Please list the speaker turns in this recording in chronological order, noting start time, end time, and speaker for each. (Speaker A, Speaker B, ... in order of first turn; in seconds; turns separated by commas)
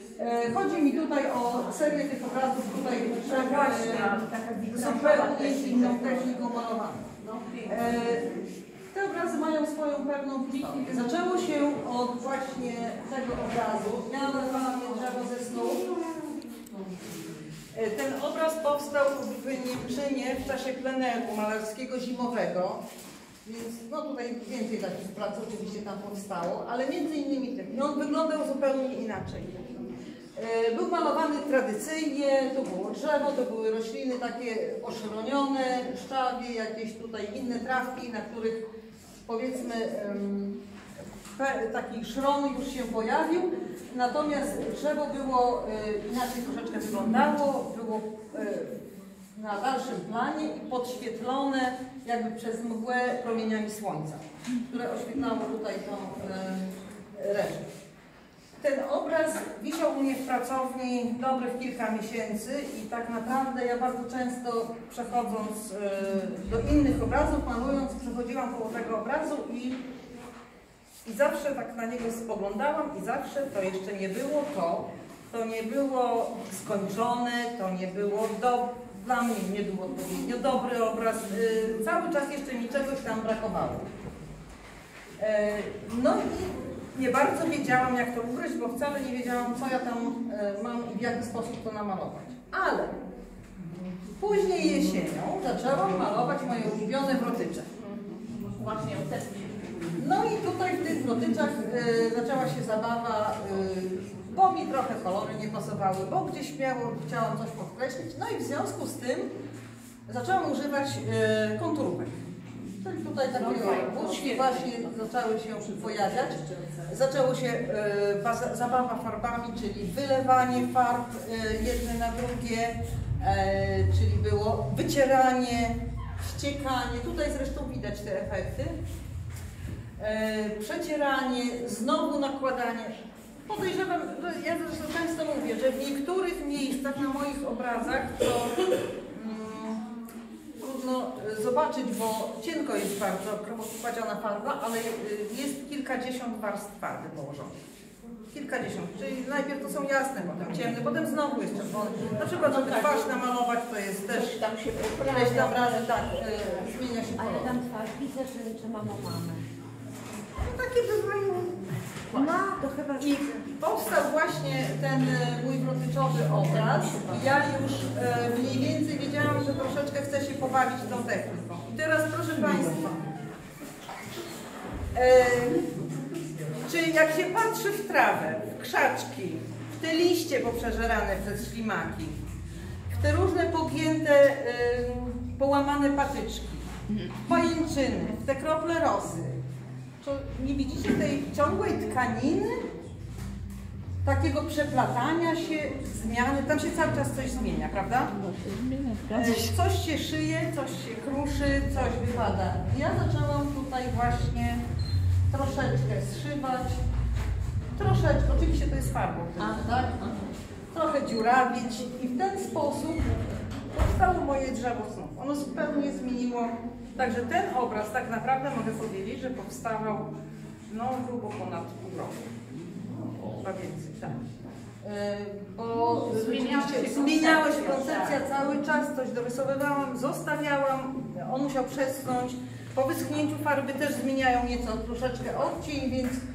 Speaker A: 0.2-4.2, Speaker B: 3.3-6.0, Speaker A: 4.7-7.1, Speaker B: 7.3-7.7, Speaker A: 7.7-8.3, Speaker A: 8.9-16.2, Speaker A: 17.7-22.8, Speaker A: 23.4-29.6, Speaker A: 30.4-38.6, Speaker A: 39.2-40.6, Speaker A: 41.3-48.7, Speaker A: 49.3-57.7, Speaker A: 58.6-69.8, Speaker A: 71.0-83.9, Speaker A: 85.2-92.9, Speaker A: 94.2-97.7, Speaker B: 97.8-99.7, Speaker A: 100.0-109.3, Speaker A: 110.1-112.1, Speaker A: 112.8-128.8, Speaker B: 113.3-114.9, Speaker B: 115.9-116.8, Speaker A: 130.0-139.8, Speaker A: 140.6-147.5, Speaker A: 148.3-154.4, Speaker B: 152.4-153.1, Speaker B: 154.1-155.9, Speaker A: 155.0-157.6, Speaker C: 157.2-159.4, Speaker A: 160.4-161.6, Speaker C: 162.1-163.1, Speaker A: 163.0-173.0, Speaker A: 174.9-175.7, Speaker A: 176.6-182.2, Speaker A: 182.9-189.4, Speaker A: 190.0-192.6, Speaker A: 194.1-198.1, Speaker B: 198.2-199.4, Speaker A: 199.1-204.6, Speaker A: 205.3-206.8, Speaker A: 207.8-209.8, Speaker B: 209.4-210.2, Speaker A: 210.7-213.1, Speaker A: 213.7-220.1, Speaker A: 220.7-222.2, Speaker A: 223.2-224.2, Speaker A: 224.8-236.2, Speaker B: 225.9-228.2